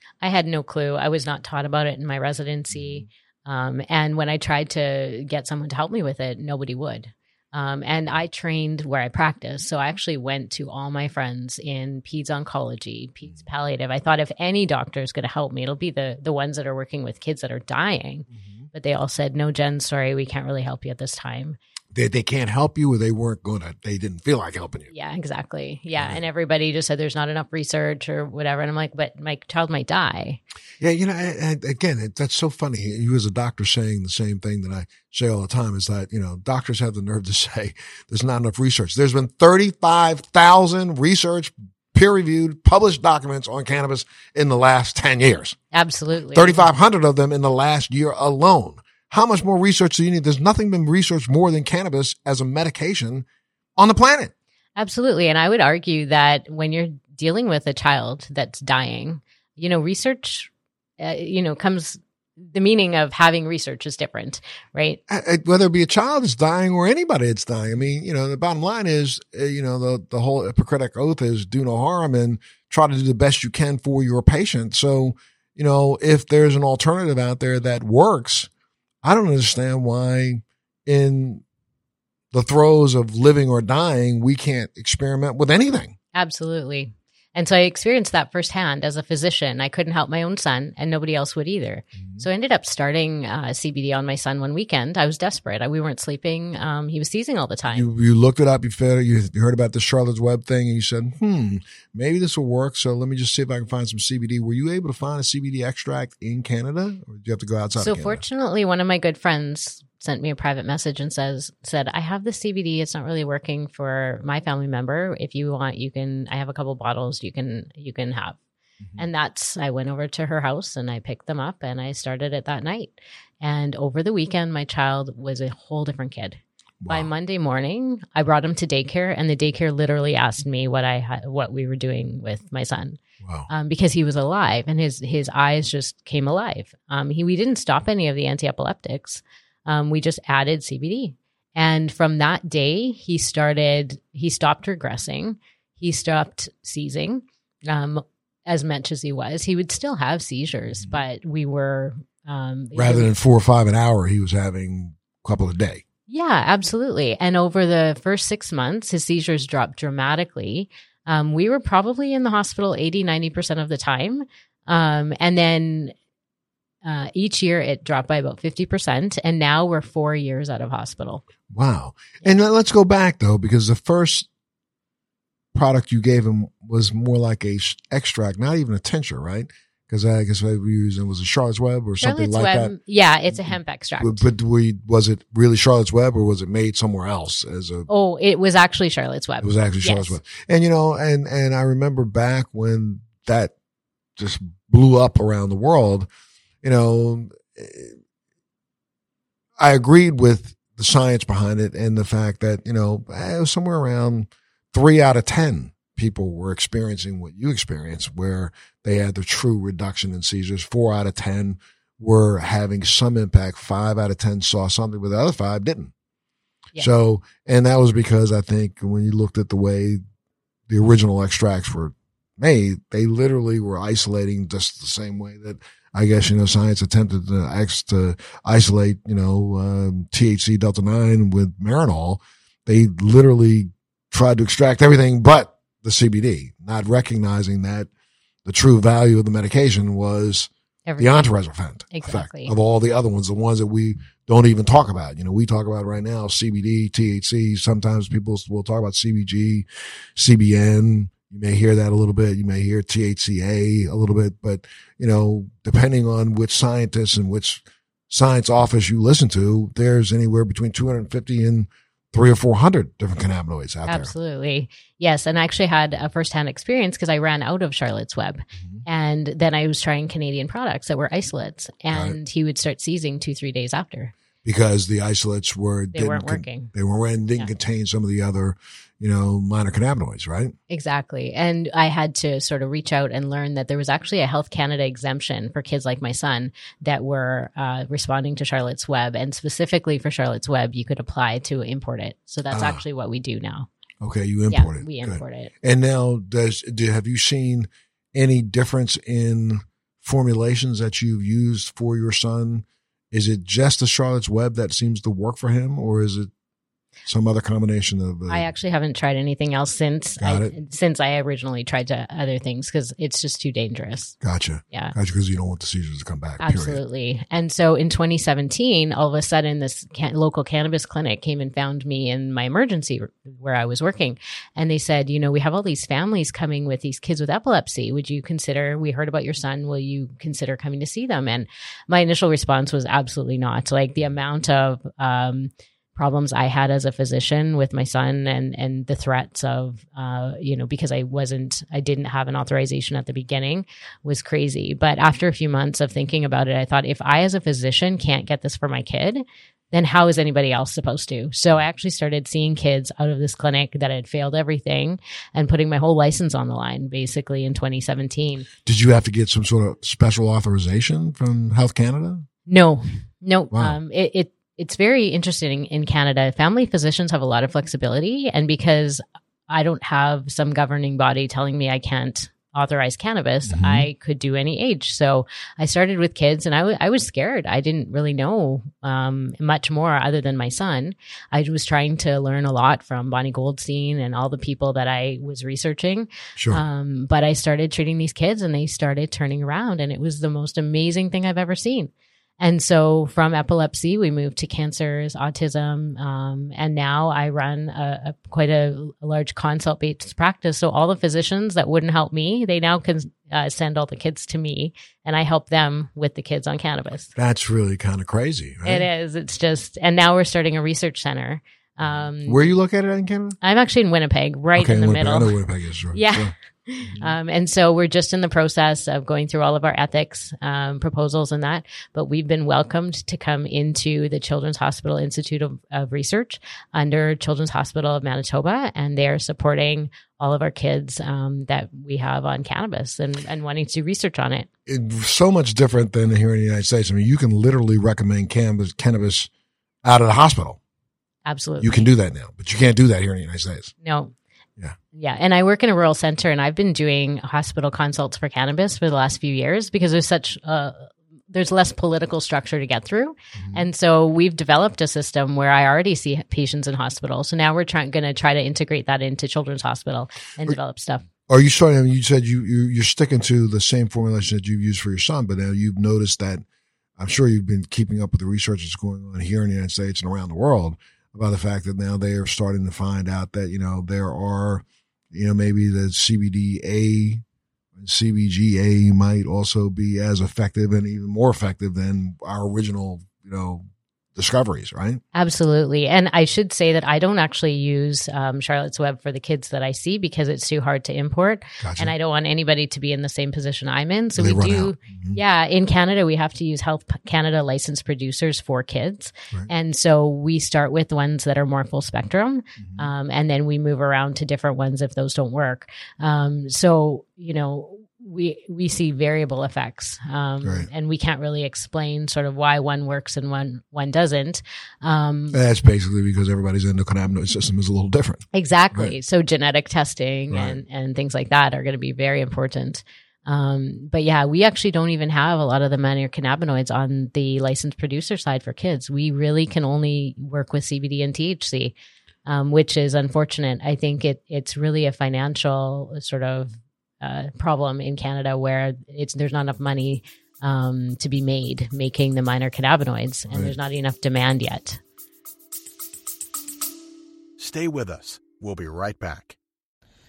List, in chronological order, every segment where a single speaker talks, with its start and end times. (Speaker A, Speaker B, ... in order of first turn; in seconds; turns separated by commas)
Speaker A: 0.2-21.6, Speaker B: 2.7-3.1, Speaker B: 18.3-18.7, Speaker B: 21.9-24.9, Speaker A: 24.9-30.4, Speaker B: 25.9-26.2, Speaker B: 30.8-45.6, Speaker A: 45.7-46.6, Speaker B: 46.3-54.3, Speaker A: 54.8-65.0, Speaker B: 65.1-78.5, Speaker B: 79.0-81.4, Speaker B: 82.3-86.0, Speaker A: 86.1-97.9, Speaker B: 92.0-92.2, Speaker B: 97.7-108.2, Speaker A: 107.8-118.4, Speaker A: 119.0-153.1, Speaker B: 126.8-127.1, Speaker B: 133.2-133.5, Speaker B: 152.7-155.8, Speaker A: 156.1-165.9, Speaker A: 166.8-171.2, Speaker B: 171.5-174.3, Speaker B: 175.5-182.8, Speaker A: 182.0-184.2, Speaker B: 183.3-187.9, Speaker A: 187.9-190.2, Speaker B: 189.4-193.5, Speaker B: 194.2-196.1, Speaker B: 196.6-198.0, Speaker B: 199.6-215.9, Speaker B: 216.8-220.0, Speaker B: 220.7-237.9, Speaker B: 238.4-264.1, Speaker A: 240.9-241.3, Speaker A: 241.9-242.5, Speaker A: 263.9-274.1, Speaker B: 268.6-268.8, Speaker B: 271.9-272.2, Speaker B: 274.4-280.6, Speaker A: 275.9-276.7, Speaker A: 280.7-293.7, Speaker B: 292.5-292.8, Speaker B: 294.0-306.3, Speaker A: 294.5-295.5, Speaker B: 307.1-308.5, Speaker A: 308.3-314.1, Speaker B: 310.2-310.5, Speaker B: 314.2-316.8, Speaker A: 316.4-358.5, Speaker B: 358.6-362.3, Speaker A: 362.5-407.1, Speaker B: 363.5-363.8, Speaker B: 373.5-373.9, Speaker B: 386.4-386.6, Speaker B: 407.2-408.9, Speaker A: 408.6-412.5, Speaker B: 411.8-413.4, Speaker A: 413.4-415.4, Speaker B: 414.6-417.1, Speaker A: 415.9-434.5, Speaker B: 434.7-439.3, Speaker B: 439.8-440.6, Speaker A: 441.3-441.9, Speaker B: 441.6-443.7, Speaker A: 443.8-444.1, Speaker A: 444.9-461.0, Speaker B: 453.4-453.6, Speaker B: 461.3-466.4, Speaker B: 467.0-477.2, Speaker B: 477.8-485.0, Speaker A: 485.1-515.4, Speaker B: 491.6-491.9, Speaker B: 494.2-495.2, Speaker B: 502.6-502.9, Speaker B: 510.4-510.7, Speaker B: 515.3-518.9, Speaker A: 518.3-531.8, Speaker B: 520.3-520.6, Speaker A: 532.3-544.8, Speaker B: 543.3-543.6, Speaker C: 547.4-549.4